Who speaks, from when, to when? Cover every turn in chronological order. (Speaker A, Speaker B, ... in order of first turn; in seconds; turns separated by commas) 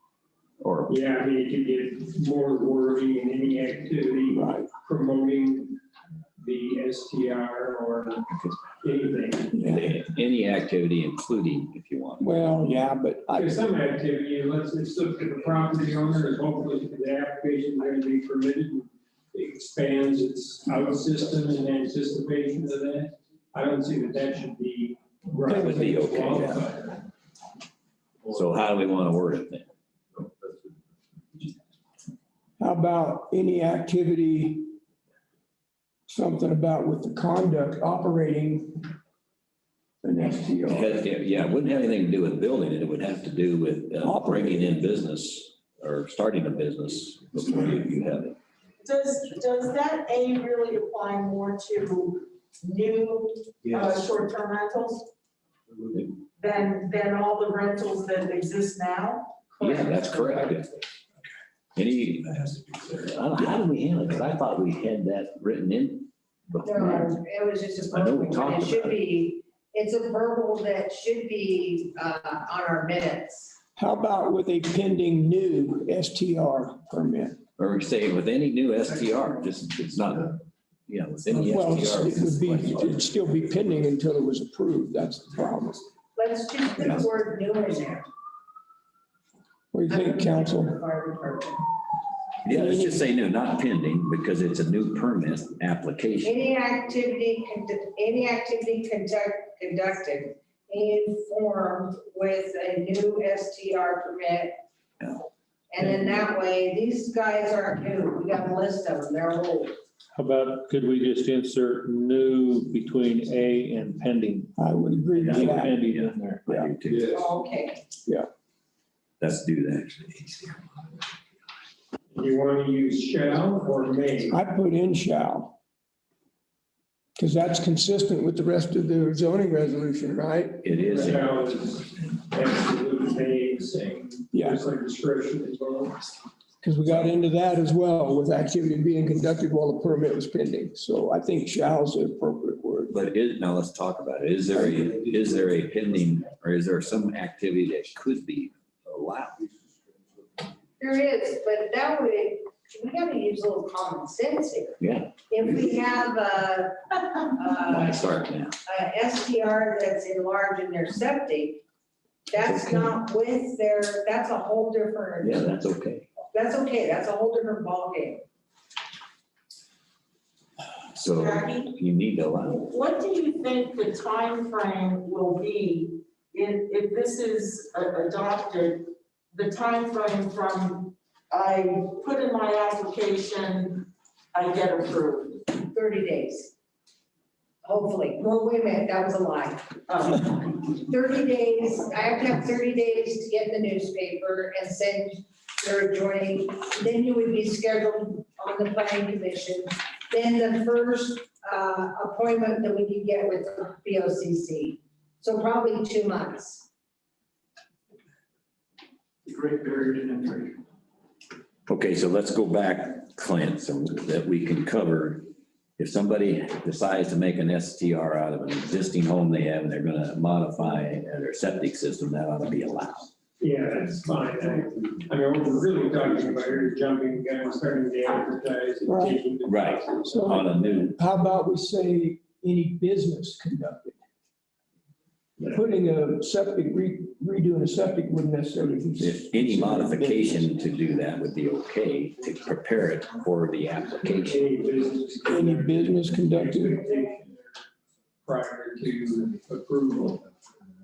Speaker A: 0.6-0.9, Speaker B: 0.9-5.8, Speaker C: 4.3-4.7, Speaker B: 6.4-9.6, Speaker C: 9.5-9.9, Speaker A: 9.6-12.4, Speaker C: 12.2-13.5, Speaker B: 13.3-27.0, Speaker A: 25.5-26.7, Speaker C: 25.5-26.0, Speaker A: 28.3-29.7, Speaker C: 32.6-34.7, Speaker C: 36.1-38.9, Speaker C: 40.0-41.0, Speaker A: 40.7-48.4, Speaker C: 44.0-44.9, Speaker D: 48.8-55.1, Speaker D: 56.4-60.5, Speaker A: 59.6-60.7, Speaker A: 61.8-67.2, Speaker E: 66.6-73.6, Speaker A: 67.9-69.0, Speaker C: 73.8-77.4, Speaker A: 77.6-83.1, Speaker C: 81.4-85.9, Speaker E: 86.2-88.1, Speaker C: 89.7-90.8, Speaker E: 89.9-91.7, Speaker A: 92.4-96.4, Speaker C: 92.5-93.0, Speaker E: 96.2-104.6, Speaker A: 105.0-105.3, Speaker E: 105.7-109.8, Speaker F: 110.2-114.5, Speaker C: 114.6-115.8, Speaker A: 115.2-117.2, Speaker F: 115.3-117.2, Speaker E: 117.1-117.8, Speaker A: 119.2-120.6, Speaker B: 122.1-124.4, Speaker C: 124.3-125.6, Speaker C: 127.2-130.7, Speaker A: 130.6-131.3, Speaker B: 130.9-136.1, Speaker C: 134.3-134.6, Speaker C: 136.6-142.9, Speaker A: 136.9-137.1, Speaker A: 142.9-149.4, Speaker E: 150.8-158.1, Speaker A: 154.8-155.2, Speaker A: 157.7-158.5, Speaker E: 158.7-161.6, Speaker E: 162.3-165.5, Speaker A: 162.4-162.9, Speaker A: 165.2-166.1, Speaker E: 166.3-168.2, Speaker A: 170.9-172.7, Speaker D: 171.0-171.7, Speaker D: 172.6-185.5, Speaker E: 185.6-186.5, Speaker E: 187.6-206.7, Speaker D: 189.9-190.4, Speaker F: 209.6-210.2, Speaker A: 211.7-223.1, Speaker B: 223.4-230.4, Speaker C: 228.9-229.2, Speaker A: 229.4-231.0, Speaker C: 230.1-234.0, Speaker C: 235.4-240.5, Speaker A: 239.0-244.4, Speaker B: 244.0-247.4, Speaker C: 245.3-246.8, Speaker B: 248.2-250.3